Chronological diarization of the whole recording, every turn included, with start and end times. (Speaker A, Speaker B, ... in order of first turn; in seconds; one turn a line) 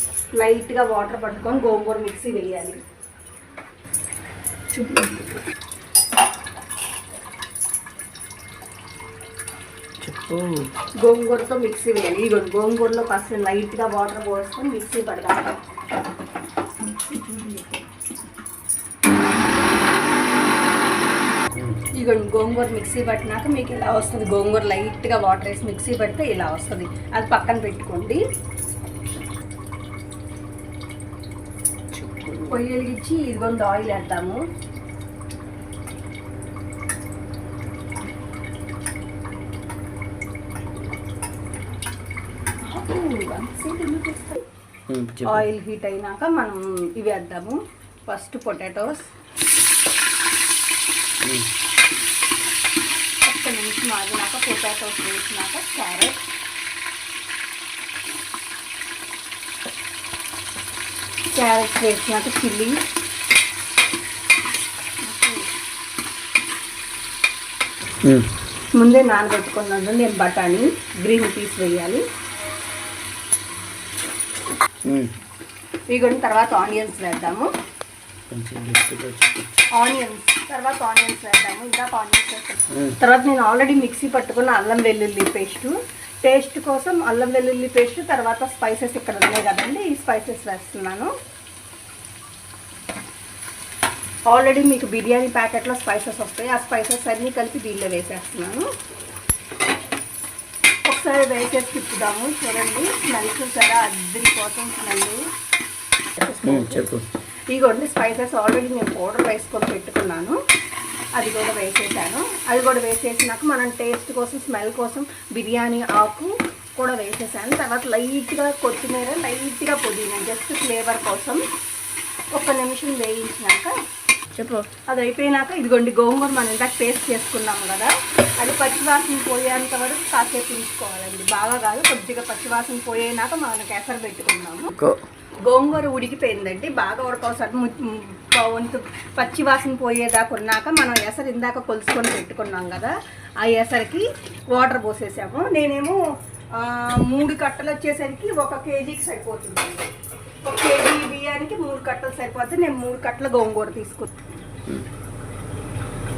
Speaker A: 0.4-2.8
Speaker B: 10.0-10.7
Speaker A: 11.0-15.5
Speaker A: 17.1-17.6
Speaker B: 21.5-21.8
Speaker A: 22.0-28.2
Speaker A: 32.5-34.4
Speaker A: 42.7-44.4
Speaker B: 44.9-45.5
Speaker A: 45.2-49.1
Speaker A: 53.3-56.2
Speaker A: 61.3-62.8
Speaker A: 65.1-65.4
Speaker A: 68.8-72.0
Speaker B: 74.8-75.1
Speaker A: 75.9-77.5
Speaker B: 78.3-79.5
Speaker A: 79.8-91.1
Speaker B: 82.7-83.0
Speaker A: 94.3-98.7
Speaker A: 100.9-105.2
Speaker A: 106.2-106.8
Speaker B: 106.4-107.0
Speaker A: 107.5-110.4
Speaker A: 111.2-121.4
Speaker A: 122.3-123.7
Speaker B: 124.4-124.7
Speaker A: 124.9-134.8
Speaker A: 135.5-146.0
Speaker A: 146.6-149.8
Speaker A: 150.4-154.1